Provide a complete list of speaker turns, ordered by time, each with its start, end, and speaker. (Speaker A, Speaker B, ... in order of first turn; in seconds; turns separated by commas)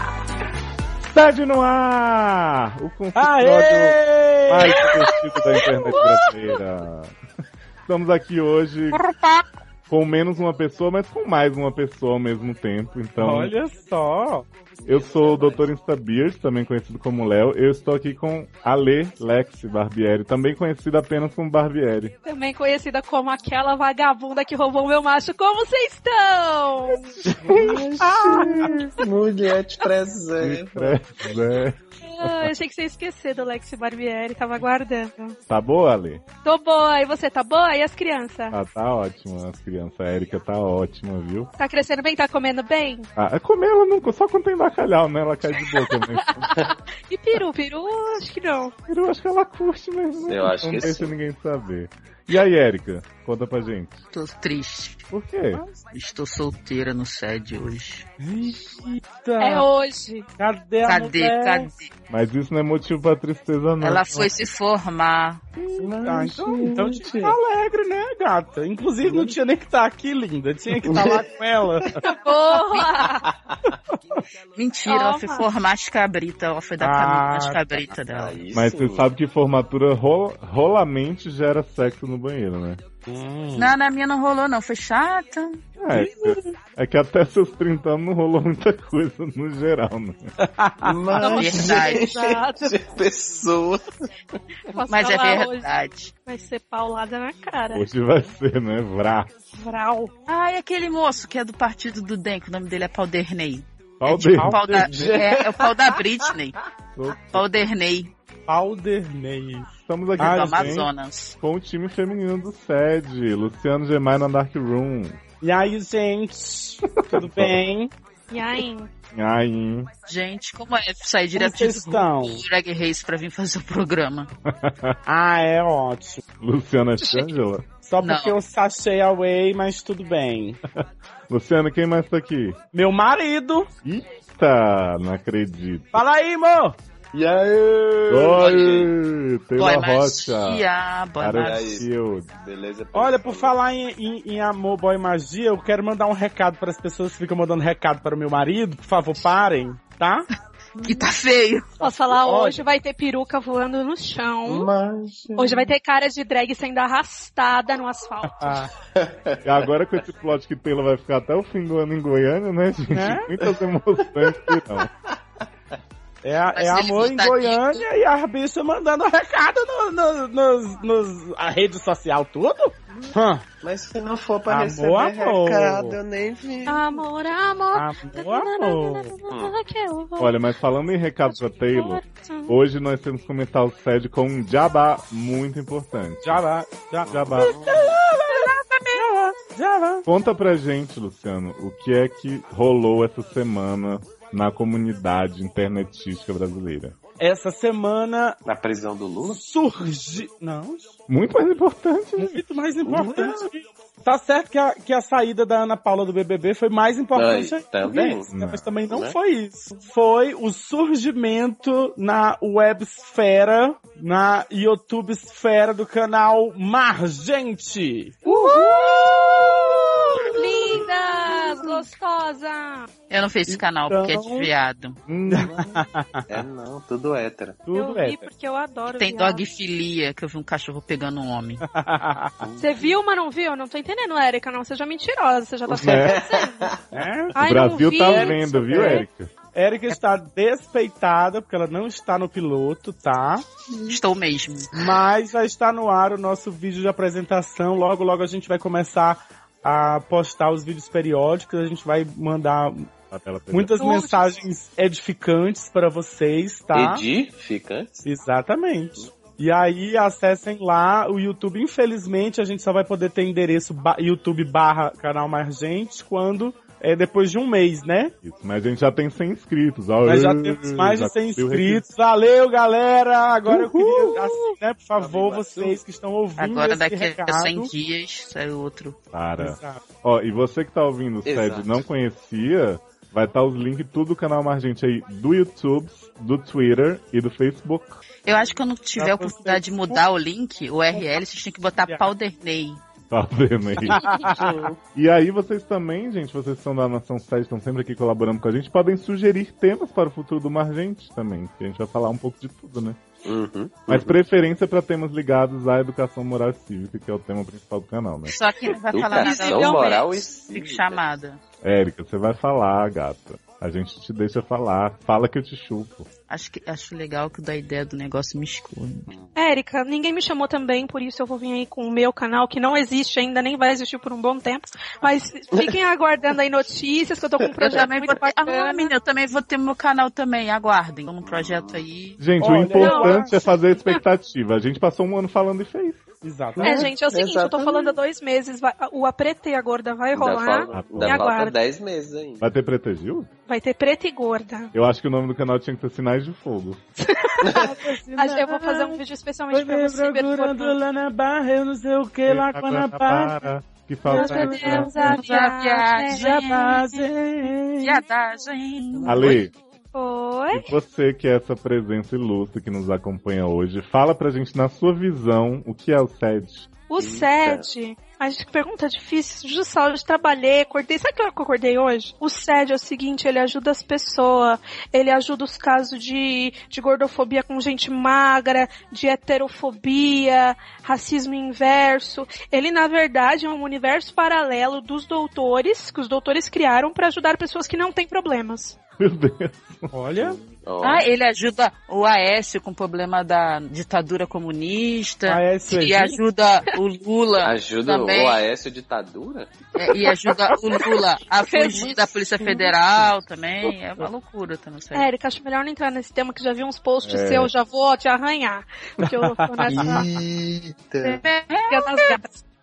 Speaker A: 1.1-7.2, Speaker B: 3.1-5.0, Speaker C: 4.6-6.5, Speaker A: 7.8-9.0, Speaker A: 9.9-13.6, Speaker B: 13.2-14.5, Speaker A: 14.8-22.1, Speaker D: 14.9-15.6, Speaker C: 22.2-27.2, Speaker A: 27.3-28.6, Speaker D: 27.5-30.9, Speaker B: 28.0-28.7, Speaker A: 30.4-32.5, Speaker C: 32.0-35.4, Speaker A: 35.5-36.2, Speaker C: 36.4-38.6, Speaker A: 38.5-41.5, Speaker C: 41.6-43.1, Speaker A: 43.2-46.7, Speaker C: 45.8-48.7, Speaker A: 48.9-54.0, Speaker D: 50.3-51.1, Speaker E: 54.1-55.1, Speaker A: 55.1-55.6, Speaker E: 55.9-58.1, Speaker B: 58.2-59.7, Speaker C: 59.4-60.3, Speaker B: 60.4-61.7, Speaker E: 60.8-61.9, Speaker A: 62.1-64.3, Speaker E: 63.8-65.4, Speaker A: 65.6-65.9, Speaker D: 65.8-67.4, Speaker B: 66.0-72.0, Speaker D: 70.8-71.3, Speaker C: 72.0-73.2, Speaker E: 72.6-72.9, Speaker D: 73.2-73.6, Speaker B: 73.7-74.2, Speaker E: 74.6-78.4, Speaker C: 74.9-75.5, Speaker B: 76.8-77.6, Speaker D: 78.1-79.1, Speaker A: 78.5-82.8, Speaker B: 83.1-83.7, Speaker E: 83.6-86.5, Speaker A: 85.8-90.3, Speaker B: 90.5-91.0, Speaker D: 90.8-94.1, Speaker C: 91.2-92.7, Speaker E: 91.3-92.1, Speaker C: 94.7-95.7, Speaker E: 94.9-96.1, Speaker C: 96.3-97.9, Speaker A: 97.7-99.4, Speaker C: 99.6-100.1, Speaker E: 100.3-106.6, Speaker A: 104.0-104.8, Speaker B: 104.4-105.2, Speaker D: 104.9-105.7, Speaker A: 107.0-107.4, Speaker E: 107.3-108.1, Speaker B: 108.5-109.7, Speaker A: 109.9-110.9, Speaker B: 110.2-110.8, Speaker E: 110.2-111.4, Speaker A: 111.4-115.2, Speaker B: 115.4-117.9, Speaker A: 117.0-117.6, Speaker C: 118.3-118.9, Speaker A: 119.1-119.9, Speaker E: 120.1-124.3, Speaker B: 121.3-122.4, Speaker A: 124.5-125.0, Speaker B: 125.1-126.2, Speaker A: 126.4-127.7, Speaker B: 127.8-130.6, Speaker E: 128.0-128.4, Speaker A: 130.7-132.6, Speaker B: 132.7-133.7, Speaker A: 133.8-136.0, Speaker B: 135.9-136.8, Speaker D: 137.1-138.9, Speaker A: 138.1-140.7, Speaker E: 138.4-138.7, Speaker E: 139.6-141.7, Speaker A: 141.2-142.3, Speaker D: 141.4-141.9, Speaker D: 142.4-143.6, Speaker B: 142.9-150.3, Speaker E: 150.8-151.6, Speaker B: 151.8-152.6, Speaker C: 151.8-154.7, Speaker D: 154.5-155.7, Speaker C: 155.4-158.6, Speaker B: 158.2-158.7, Speaker D: 159.0-160.0, Speaker A: 159.4-164.9, Speaker B: 162.9-163.3, Speaker D: 164.2-164.9, Speaker B: 166.2-173.4, Speaker E: 166.5-167.8, Speaker D: 173.6-177.0, Speaker B: 174.5-176.0, Speaker C: 176.7-180.3, Speaker B: 177.7-179.1, Speaker D: 179.3-179.5, Speaker A: 180.2-186.4, Speaker C: 181.3-182.5, Speaker B: 186.2-190.1, Speaker D: 187.1-188.0, Speaker A: 187.1-187.6, Speaker E: 188.3-189.0, Speaker A: 190.1-196.9, Speaker B: 197.2-198.4, Speaker D: 198.4-199.4, Speaker B: 199.3-200.9, Speaker A: 201.1-202.4, Speaker B: 202.2-219.8, Speaker D: 202.8-203.4, Speaker D: 207.1-208.3, Speaker A: 208.3-208.7, Speaker D: 208.9-209.2, Speaker C: 218.3-219.6, Speaker C: 220.2-222.9, Speaker E: 223.1-225.0, Speaker B: 223.5-224.5, Speaker A: 225.1-225.7, Speaker B: 225.3-226.4, Speaker D: 226.3-227.6, Speaker B: 227.7-228.3, Speaker C: 227.7-229.4, Speaker E: 228.9-231.6, Speaker B: 231.7-232.3, Speaker D: 232.4-232.9, Speaker C: 232.6-236.8, Speaker A: 235.8-236.2, Speaker D: 235.8-236.8, Speaker B: 236.9-237.4, Speaker C: 237.3-239.1, Speaker A: 237.4-239.3, Speaker B: 237.9-243.5, Speaker E: 243.9-244.7, Speaker B: 244.7-252.9, Speaker A: 253.1-253.9, Speaker B: 253.5-257.0, Speaker C: 253.8-254.2, Speaker D: 256.7-258.1, Speaker B: 258.1-268.1, Speaker A: 268.2-271.9, Speaker B: 270.1-277.7, Speaker A: 273.5-274.4, Speaker D: 274.9-275.8, Speaker E: 276.4-279.0, Speaker A: 279.1-288.0, Speaker B: 279.4-279.8, Speaker D: 281.2-281.8, Speaker E: 288.2-292.8, Speaker B: 289.0-290.0, Speaker A: 293.1-294.3, Speaker B: 293.8-294.7, Speaker D: 294.4-294.8, Speaker A: 294.9-303.0, Speaker D: 303.2-304.1, Speaker A: 303.9-308.3, Speaker E: 308.3-311.4, Speaker D: 308.7-311.0, Speaker C: 309.1-310.1, Speaker A: 311.6-316.1, Speaker E: 316.3-319.1, Speaker C: 319.4-328.9, Speaker E: 327.6-332.2, Speaker D: 331.2-331.8, Speaker A: 332.2-336.1, Speaker B: 332.4-333.3, Speaker C: 332.8-334.0, Speaker B: 336.2-336.9, Speaker D: 336.6-338.0, Speaker C: 336.6-341.6, Speaker D: 340.2-342.4, Speaker A: 340.7-341.2, Speaker A: 342.4-343.3, Speaker C: 343.5-344.7, Speaker A: 344.7-346.8, Speaker C: 347.0-350.8, Speaker B: 347.5-353.5, Speaker A: 352.3-354.9, Speaker B: 354.1-355.4, Speaker C: 354.1-356.4, Speaker E: 354.9-356.9, Speaker B: 356.1-358.0, Speaker E: 357.8-359.4, Speaker A: 359.1-359.5, Speaker C: 359.9-360.7, Speaker A: 360.5-366.7, Speaker C: 366.9-388.8, Speaker D: 367.0-367.7, Speaker A: 389.0-390.4, Speaker B: 389.9-390.4, Speaker D: 390.5-391.1, Speaker E: 390.8-398.4, Speaker B: 395.3-396.2, Speaker D: 397.4-399.5, Speaker E: 399.8-405.1, Speaker C: 401.4-402.1, Speaker C: 404.9-410.1, Speaker A: 407.0-407.5, Speaker B: 409.0-410.2, Speaker D: 409.8-411.2, Speaker E: 411.0-412.2, Speaker C: 411.7-412.4